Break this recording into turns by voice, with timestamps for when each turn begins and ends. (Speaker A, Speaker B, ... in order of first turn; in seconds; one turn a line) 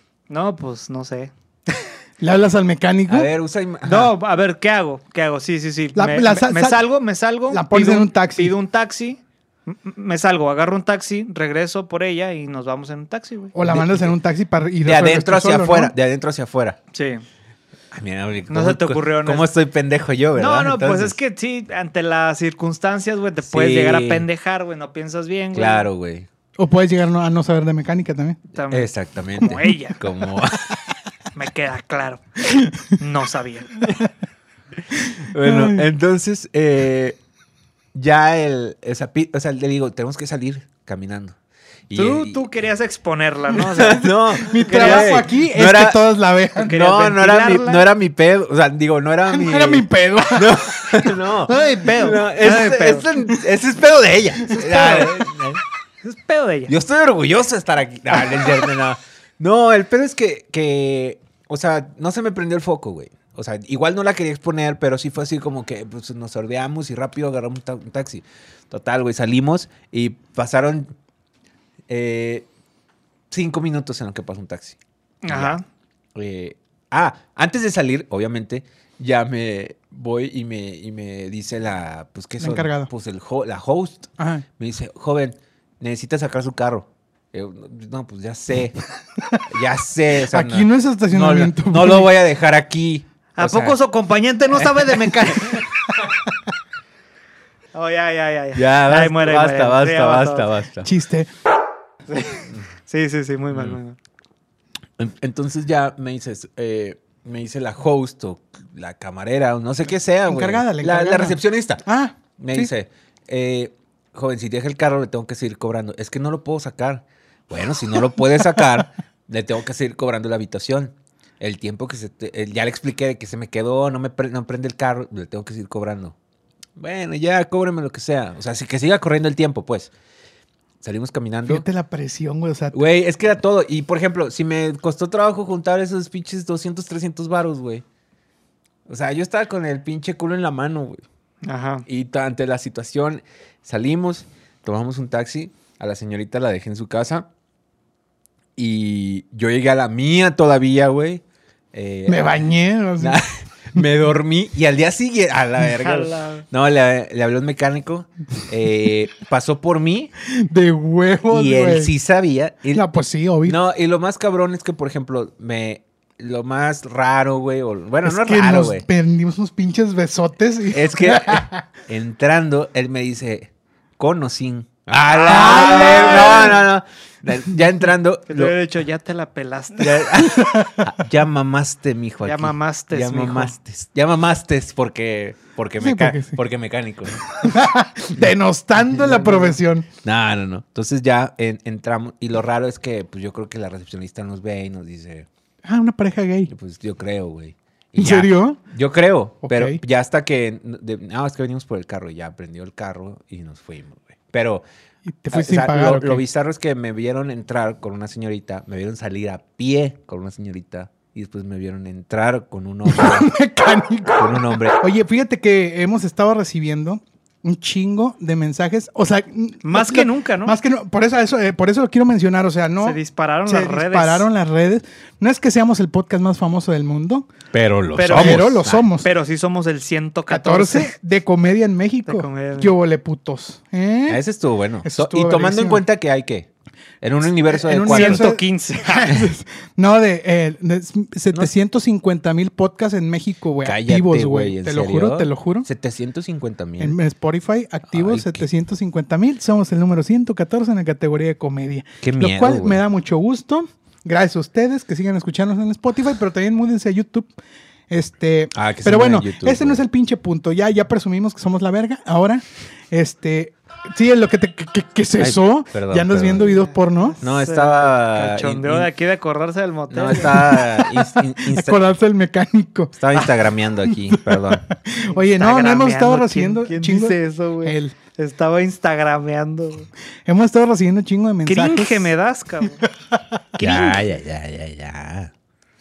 Speaker A: 0.3-1.3
Speaker B: 2.2-3.3
Speaker C: 3.1-4.1
Speaker A: 3.8-13.5
Speaker B: 5.9-6.8
Speaker B: 7.5-8.5
Speaker B: 13.5-15.9
Speaker C: 13.6-14.1
Speaker C: 14.8-16.8
Speaker A: 16.9-17.2
Speaker C: 17.9-21.2
Speaker A: 18.5-19.5
Speaker A: 20.4-25.9
Speaker C: 23.4-24.2
Speaker C: 25.5-26.3
Speaker B: 26.6-28.4
Speaker A: 28.5-30.0
Speaker C: 28.7-30.8
Speaker A: 31.3-32.2
Speaker A: 32.8-33.7
Speaker C: 35.1-37.2
Speaker B: 35.4-35.8
Speaker C: 37.9-41.3
Speaker C: 41.9-42.4
Speaker A: 41.9-45.2
Speaker C: 43.6-46.0
Speaker B: 44.4-46.7
Speaker A: 46.5-47.8
Speaker C: 46.6-55.6
Speaker B: 49.3-51.1
Speaker A: 51.5-53.1
Speaker A: 54.5-55.1
Speaker A: 56.0-56.7
Speaker C: 56.7-70.9
Speaker C: 71.9-72.5
Speaker C: 73.3-74.8
Speaker A: 75.2-75.6
Speaker C: 75.3-75.6
Speaker C: 76.1-88.8
Speaker B: 82.4-82.9
Speaker B: 84.2-84.4
Speaker C: 89.5-93.8
Speaker B: 90.3-92.1
Speaker A: 93.4-95.6
Speaker C: 94.5-95.5
Speaker A: 97.7-100.5
Speaker C: 98.5-100.9
Speaker B: 100.8-101.3
Speaker A: 102.1-104.0
Speaker C: 103.5-103.8
Speaker C: 105.0-111.8
Speaker B: 110.3-112.7
Speaker C: 112.4-126.1
Speaker C: 126.8-129.9
Speaker C: 130.8-131.6
Speaker B: 131.5-132.8
Speaker C: 132.7-137.8
Speaker C: 138.9-141.0
Speaker A: 141.4-141.8
Speaker C: 141.9-147.3
Speaker C: 148.6-151.2
Speaker C: 151.7-152.4
Speaker B: 152.1-153.2
Speaker C: 153.0-160.1
Speaker A: 155.8-156.4
Speaker B: 160.2-161.9
Speaker C: 161.3-162.8
Speaker B: 162.7-163.6
Speaker C: 163.4-168.8
Speaker B: 168.0-171.6
Speaker C: 170.7-178.5
Speaker A: 175.1-176.6
Speaker B: 175.3-176.6
Speaker A: 178.3-180.1
Speaker C: 179.8-187.6
Speaker B: 180.2-180.9
Speaker A: 182.2-183.5
Speaker B: 185.8-186.4
Speaker B: 187.4-189.9
Speaker C: 188.9-195.3
Speaker B: 195.6-196.5
Speaker C: 196.5-204.6
Speaker B: 198.0-198.6
Speaker B: 199.4-199.8
Speaker B: 205.1-206.2
Speaker C: 205.3-213.3
Speaker B: 212.8-227.3
Speaker C: 214.2-214.8
Speaker A: 219.6-220.5
Speaker A: 222.8-224.3
Speaker C: 227.5-228.8
Speaker A: 227.9-228.5
Speaker B: 228.1-229.1
Speaker A: 229.0-230.9
Speaker B: 230.3-234.2
Speaker A: 232.1-232.7
Speaker C: 234.1-236.5
Speaker B: 234.8-235.8
Speaker C: 237.0-238.4
Speaker B: 237.5-245.7
Speaker A: 237.8-239.0
Speaker C: 239.0-239.3
Speaker C: 243.6-246.9
Speaker B: 246.8-257.3
Speaker C: 247.9-248.4
Speaker C: 252.0-252.8
Speaker B: 257.9-267.2
Speaker C: 258.5-259.8
Speaker C: 265.2-266.6
Speaker A: 266.5-270.4
Speaker C: 267.2-268.9
Speaker C: 269.9-271.8
Speaker B: 270.3-273.2
Speaker C: 272.9-274.7
Speaker B: 273.9-277.9
Speaker A: 275.1-279.9
Speaker B: 280.2-282.1
Speaker A: 281.4-282.8
Speaker B: 282.8-284.0
Speaker C: 283.6-285.3